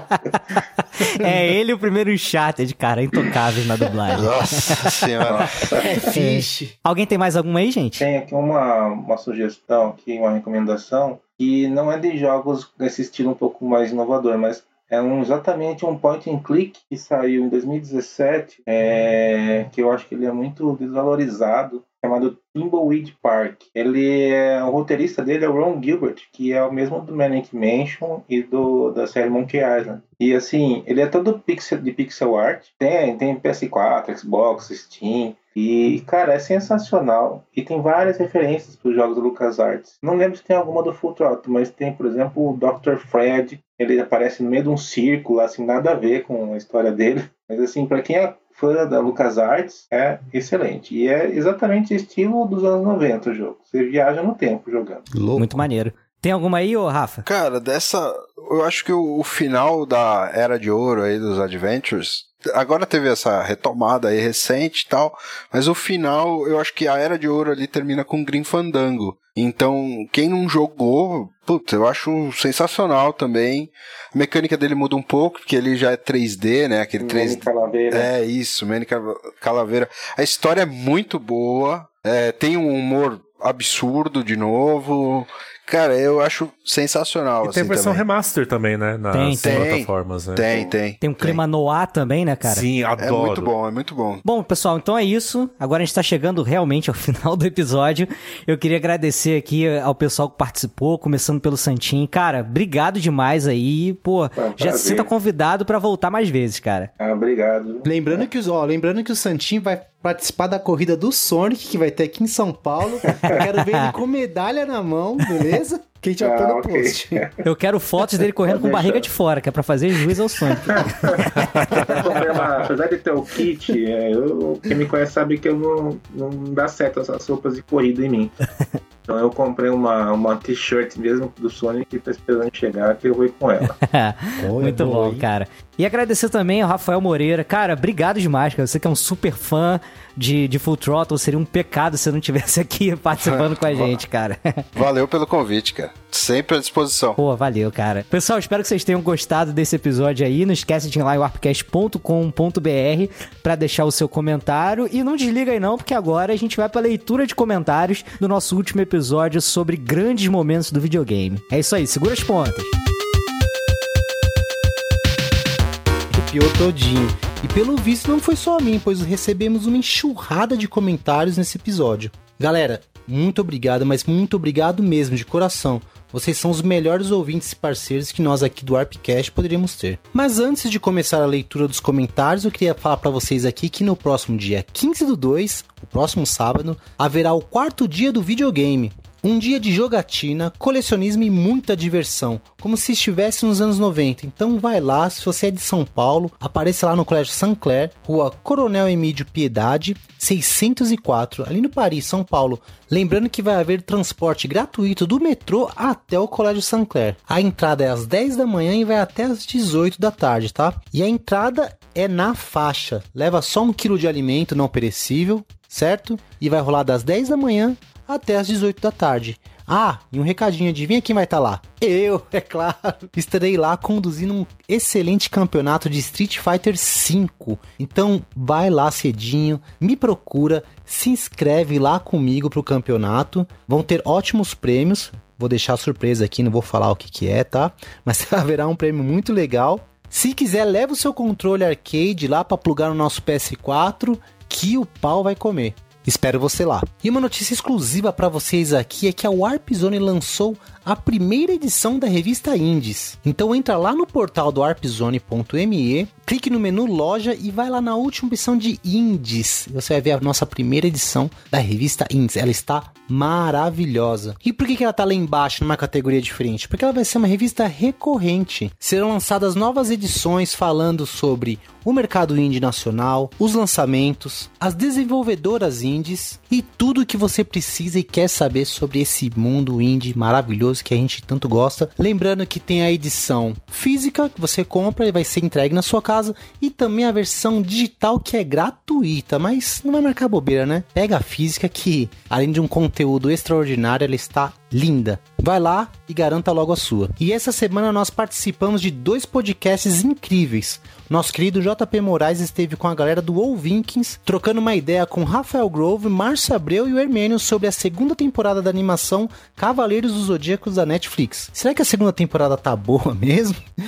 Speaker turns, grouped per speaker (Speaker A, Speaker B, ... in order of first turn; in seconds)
Speaker A: 1.0-4.9, 6.1-8.1, 55.4-57.2, 89.1-89.7, 91.0-92.7, 94.2-106.9, 117.4-122.0, 133.7-144.7, 147.2-162.7
Speaker B: 4.1-5.8, 57.2-88.0, 89.4-91.4, 93.0-94.2, 143.2-144.0, 144.8-147.2
Speaker C: 5.2-6.1, 8.0-55.1, 77.0-78.1, 104.4-105.1, 107.0-108.2, 113.1-113.4, 116.2-117.4, 118.2-119.1, 120.6-128.4, 129.1-133.8
Speaker D: 5.8-6.8, 55.1-55.6, 107.8-117.2, 134.4-135.2, 166.1-313.6
Speaker E: 87.4-90.5, 92.5-93.5